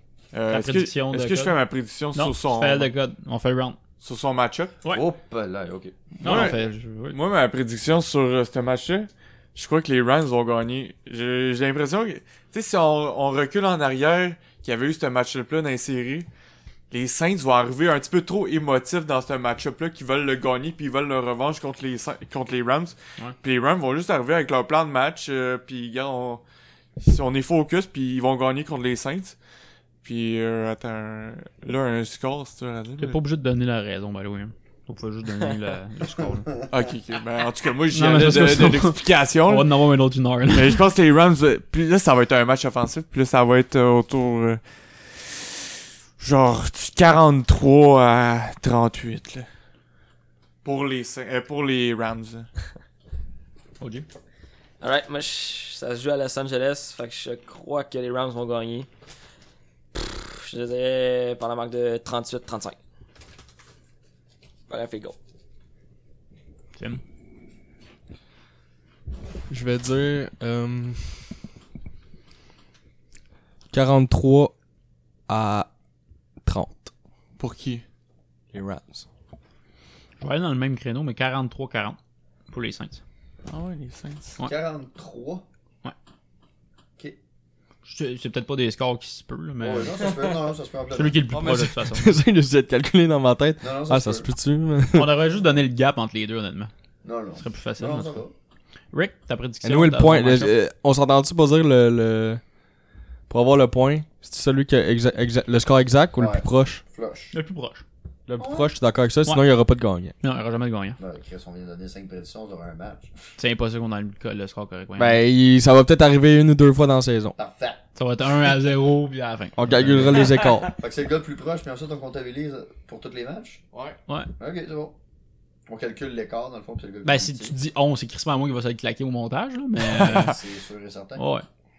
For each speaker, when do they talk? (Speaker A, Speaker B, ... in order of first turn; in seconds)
Speaker A: 0.3-2.9, 4.0-4.8, 6.2-16.3, 16.9-26.4, 27.0-29.4, 30.0-33.2, 36.7-39.8, 40.5-45.5, 46.2-49.5, 50.6-52.5, 77.4-77.8, 83.5-84.4
Speaker B: 0.5-1.6, 2.1-3.8, 6.2-7.2, 33.0-36.5, 37.9-40.9, 53.8-54.0, 80.2-82.0, 82.5-83.0, 87.8-90.2, 90.9-92.1, 94.9-96.7, 97.3-98.2, 98.9-100.5, 107.3-107.8, 110.2-111.0, 113.4-115.2, 118.0-120.3, 127.0-130.3, 131.2-131.4
Speaker C: 4.9-6.5, 84.4-85.4, 89.6-91.2, 93.6-94.3, 97.0-98.3, 106.1-107.3, 108.4-108.8, 111.0-113.1, 117.4-117.8, 120.8-123.6, 124.4-124.9, 125.7-127.5, 130.0-131.2
Speaker D: 54.8-58.9, 59.9-62.8, 64.7-65.2
Speaker E: 69.5-71.3, 73.7-74.5, 75.3-75.7, 76.4-76.9, 78.5-79.0, 91.3-95.3, 99.6-102.4, 103.3-106.8, 108.3-110.1, 115.0-117.3, 119.5-120.7, 123.7-124.0